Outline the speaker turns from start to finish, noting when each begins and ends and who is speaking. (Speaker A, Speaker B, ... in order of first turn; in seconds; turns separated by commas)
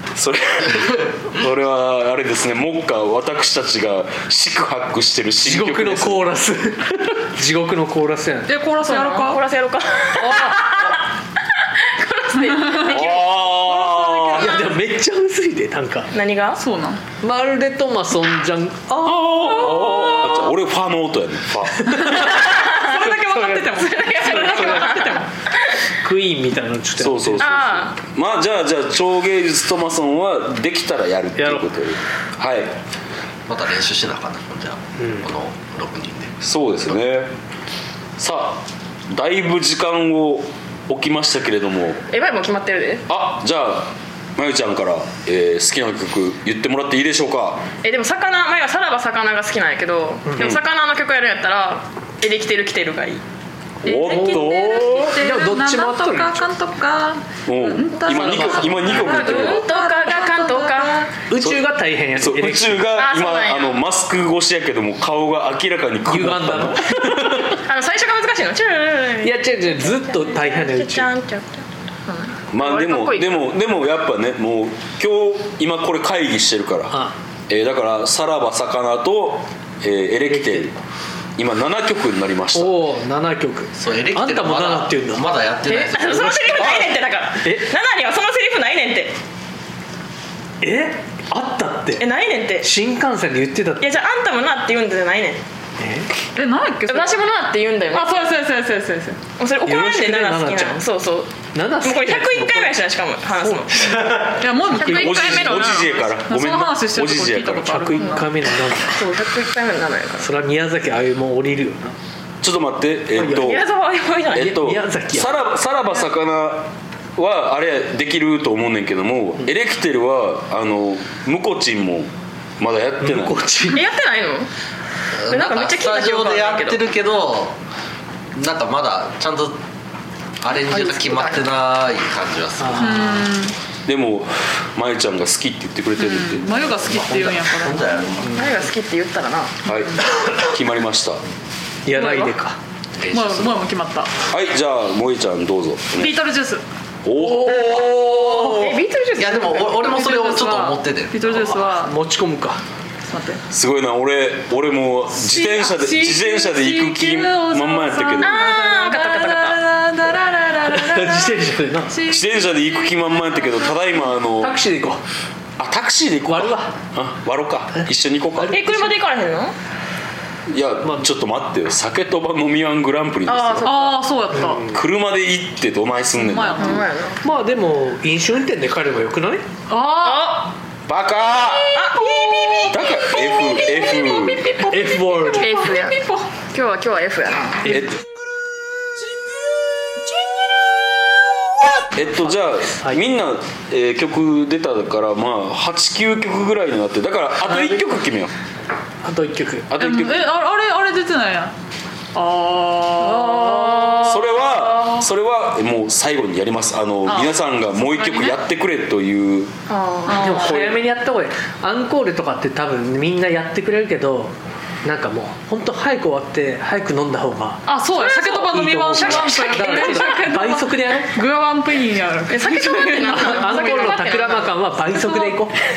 Speaker A: 0.1-6.2, Speaker B: 5.4-8.5, Speaker C: 8.5-9.4, Speaker D: 8.8-11.0, Speaker B: 10.2-10.7, Speaker D: 11.6-13.4, Speaker C: 12.4-14.7, Speaker A: 12.9-14.6, Speaker B: 14.4-16.1, Speaker D: 16.1-16.6, Speaker C: 16.6-17.0, Speaker B: 17.2-19.8, Speaker A: 19.0-22.3, Speaker D: 19.7-20.3, Speaker B: 21.8-25.2, Speaker C: 22.1-25.3, Speaker D: 22.4-25.3, Speaker B: 26.0-27.5, Speaker A: 27.0-32.8, Speaker D: 27.4-27.9, Speaker B: 31.4-31.7, Speaker E: 33.5-36.3, Speaker B: 35.0-35.2, Speaker A: 36.4-37.3, Speaker A: 38.2-42.0, Speaker D: 42.1-43.0, Speaker A: 43.1-47.7, Speaker D: 47.8-53.2, Speaker B: 50.2-50.5, Speaker A: 53.8-55.1, Speaker C: 53.9-61.1, Speaker B: 54.1-56.4, Speaker A: 57.5-59.6, Speaker B: 58.1-59.0, Speaker D: 58.9-61.1, Speaker B: 61.3-62.9, Speaker A: 61.4-67.0, Speaker D: 62.9-63.8, Speaker B: 66.1-67.6, Speaker D: 67.5-73.4, Speaker B: 69.2-71.1, Speaker A: 72.5-80.8, Speaker B: 80.3-80.6, Speaker A: 81.4-82.8, Speaker B: 82.5-85.3, Speaker E: 83.8-86.5, Speaker D: 85.6-89.2, Speaker A: 86.5-86.9, Speaker B: 87.4-87.7, Speaker B: 90.6-92.0, Speaker D: 92.0-92.7, Speaker B: 92.6-93.9, Speaker D: 93.8-95.4, Speaker B: 95.8-96.1, Speaker C: 96.3-97.2, Speaker D: 96.9-98.2, Speaker C: 97.9-99.2, Speaker D: 99.4-104.1, Speaker B: 99.6-100.8, Speaker B: 101.5-102.8, Speaker B: 103.4-104.3, Speaker C: 104.4-108.3, Speaker D: 104.7-106.1, Speaker A: 104.8-107.8, Speaker B: 107.7-109.0, Speaker D: 108.0-108.3, Speaker D: 108.8-110.3, Speaker B: 110.2-112.0, Speaker A: 112.4-113.7, Speaker B: 113.1-113.6, Speaker D: 113.3-114.6, Speaker A: 114.3-123.5, Speaker B: 114.3-115.5, Speaker B: 123.0-123.8, Speaker D: 123.7-124.5, Speaker E: 125.2-127.6, Speaker D: 125.3-126.8, Speaker E: 128.3-129.6, Speaker E: 130.4-133.1, Speaker D: 130.7-131.5, Speaker B: 132.6-133.3, Speaker C: 132.8-133.6, Speaker A: 133.8-136.6, Speaker C: 136.0-138.1, Speaker E: 136.7-138.4, Speaker D: 138.3-139.6, Speaker C: 139.7-140.1, Speaker A: 139.7-141.2, Speaker B: 141.8-142.6, Speaker D: 141.9-142.3, Speaker E: 143.0-143.7, Speaker C: 143.1-144.1, Speaker A: 144.3-146.2, Speaker C: 146.0-146.6, Speaker A: 147.1-148.5, Speaker B: 147.2-148.7, Speaker D: 147.5-149.9, Speaker E: 149.2-151.2, Speaker C: 149.8-151.9, Speaker B: 151.3-152.6, Speaker C: 153.1-153.4, Speaker A: 153.5-158.4, Speaker C: 155.2-163.7, Speaker D: 158.2-159.6, Speaker B: 160.7-162.0, Speaker A: 162.1-164.6, Speaker B: 164.4-165.0, Speaker A: 165.6-168.6, Speaker B: 166.3-166.7, Speaker B: 168.3-169.0, Speaker D: 168.5-169.6, Speaker A: 170.5-173.7, Speaker D: 173.3-174.1, Speaker C: 173.6-174.7, Speaker B: 174.3-174.7, Speaker A: 174.7-176.9, Speaker C: 176.2-176.9, Speaker D: 176.6-177.2, Speaker B: 177.2-179.4, Speaker C: 179.7-180.5, Speaker D: 179.9-180.5, Speaker A: 180.9-181.8, Speaker D: 181.5-184.6, Speaker C: 182.4-182.7, Speaker A: 182.7-184.6, Speaker C: 183.2-186.3, Speaker B: 184.7-185.6, Speaker D: 185.4-187.8, Speaker A: 187.7-187.9, Speaker A: 191.8-198.3, Speaker B: 192.0-193.1, Speaker B: 197.5-197.8, Speaker B: 199.0-199.7, Speaker A: 199.7-200.3, Speaker C: 199.8-201.5, Speaker C: 202.1-204.2, Speaker D: 203.0-204.3, Speaker A: 204.0-209.5, Speaker C: 207.1-208.4, Speaker D: 209.7-210.3, Speaker C: 210.1-210.7, Speaker B: 210.1-214.3, Speaker A: 210.3-210.8, Speaker B: 214.8-221.2, Speaker C: 217.7-224.3, Speaker D: 218.1-218.4, Speaker D: 219.0-219.6, Speaker D: 222.3-225.1, Speaker B: 223.2-225.5